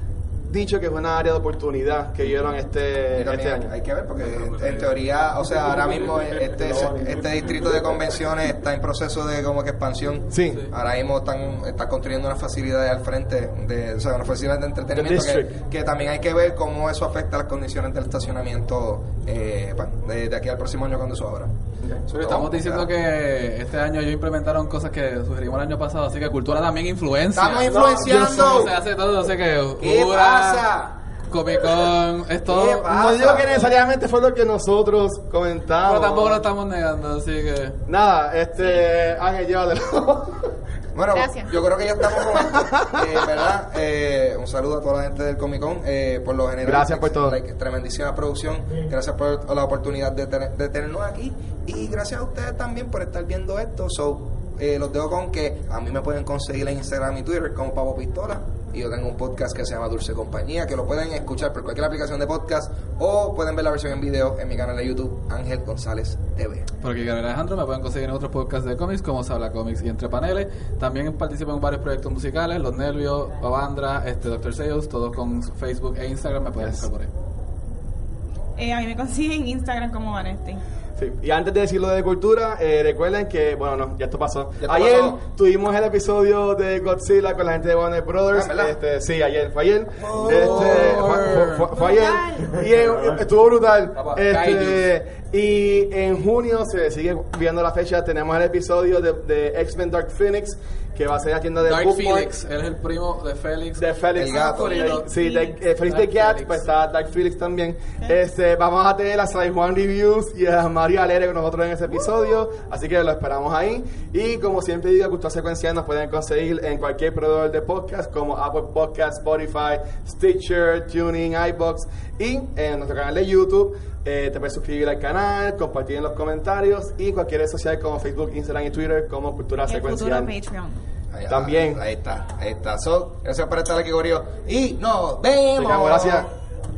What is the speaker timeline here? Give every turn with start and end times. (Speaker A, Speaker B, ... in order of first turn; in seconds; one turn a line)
Speaker A: 0.5-3.7
Speaker B: 3.1-21.5
Speaker C: 4.2-4.9
Speaker A: 6.6-6.9
Speaker A: 10.3-10.6
Speaker A: 14.9-15.5
Speaker B: 22.1-22.9
Speaker C: 22.2-30.7
Speaker B: 27.3-28.7
Speaker A: 27.7-28.7
Speaker B: 29.8-30.9
Speaker C: 31.3-32.9
Speaker B: 32.5-33.7
Speaker A: 32.9-36.4
Speaker C: 35.8-37.8
Speaker A: 37.9-40.4
Speaker B: 40.9-66.7
Speaker A: 42.4-43.0
Speaker A: 46.6-47.4
Speaker C: 66.8-77.1
Speaker A: 76.6-76.8
Speaker D: 78.6-80.6
Speaker A: 81.0-102.3
Speaker B: 84.6-85.2
Speaker B: 88.3-88.7
Speaker B: 90.0-91.2
Speaker C: 90.2-91.7
Speaker D: 91.8-92.5
Speaker C: 94.0-94.8
Speaker C: 101.6-103.8
Speaker A: 103.8-130.3
Speaker B: 104.1-105.0
Speaker D: 104.2-105.6
Speaker C: 105.9-106.6
Speaker D: 129.6-130.8
Speaker B: 131.1-136.3
Speaker A: 131.3-131.8
Speaker A: 135.6-136.3